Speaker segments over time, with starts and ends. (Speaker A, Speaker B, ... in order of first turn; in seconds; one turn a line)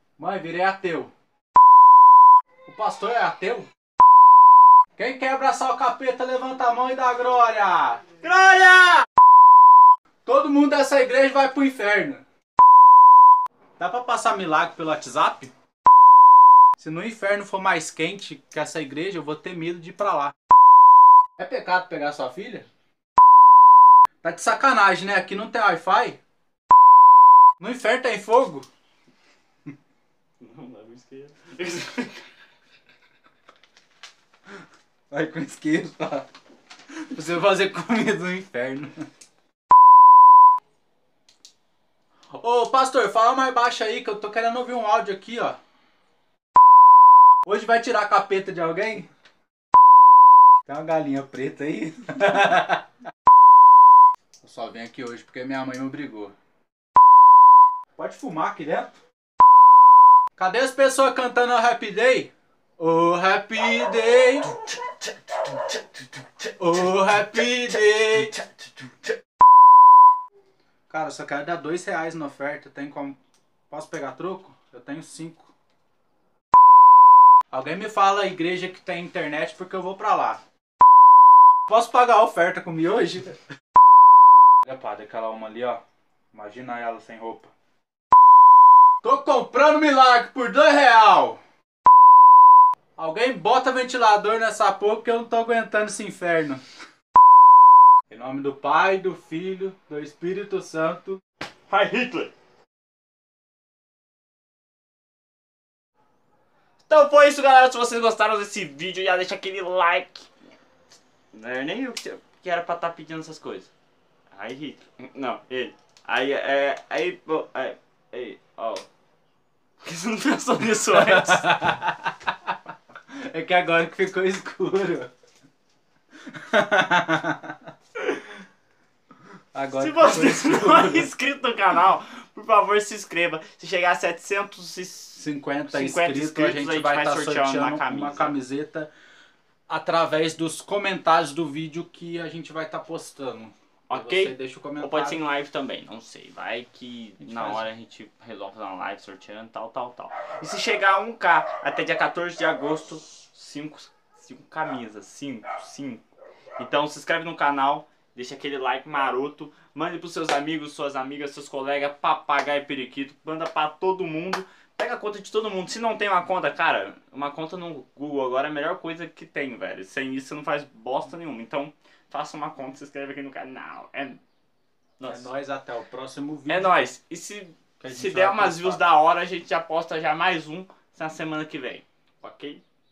Speaker A: 0.2-1.1
Speaker A: 2.6-3.7
Speaker A: 5.0-8.2
Speaker B: 8.2-9.0
Speaker A: 10.2-12.2
Speaker A: 13.8-15.5
Speaker A: 16.8-20.3
Speaker A: 21.4-22.7
Speaker A: 24.2-26.2
Speaker A: 27.6-28.7
Speaker B: 30.4-32.3
Speaker A: 35.1-36.3
Speaker A: 37.0-39.0
Speaker A: 42.4-45.6
Speaker A: 47.4-49.1
Speaker A: 50.6-52.8
Speaker A: 54.4-56.3
Speaker A: 58.0-58.9
Speaker A: 60.4-64.6
Speaker A: 66.3-68.4
Speaker A: 70.9-73.2
Speaker A: 73.7-75.5
Speaker A: 77.5-80.4
Speaker A: 81.7-83.4
Speaker A: 84.6-85.8
Speaker A: 86.3-87.5
Speaker A: 89.0-91.4
Speaker A: 93.0-96.6
Speaker A: 98.1-101.2
Speaker B: 101.7-102.3
Speaker B: 106.9-110.3
Speaker B: 111.3-113.7
Speaker B: 114.3-118.9
Speaker B: 119.8-121.5
Speaker A: 120.9-122.1
Speaker A: 123.1-125.1
Speaker A: 126.3-127.5
Speaker A: 129.5-131.1
Speaker B: 129.7-138.4
Speaker A: 135.2-138.9
Speaker A: 139.7-145.2
Speaker B: 143.9-156.0
Speaker A: 147.2-147.6
Speaker B: 156.6-174.2
Speaker B: 175.0-175.3
Speaker A: 175.1-176.7
Speaker B: 176.5-182.6
Speaker A: 177.8-178.8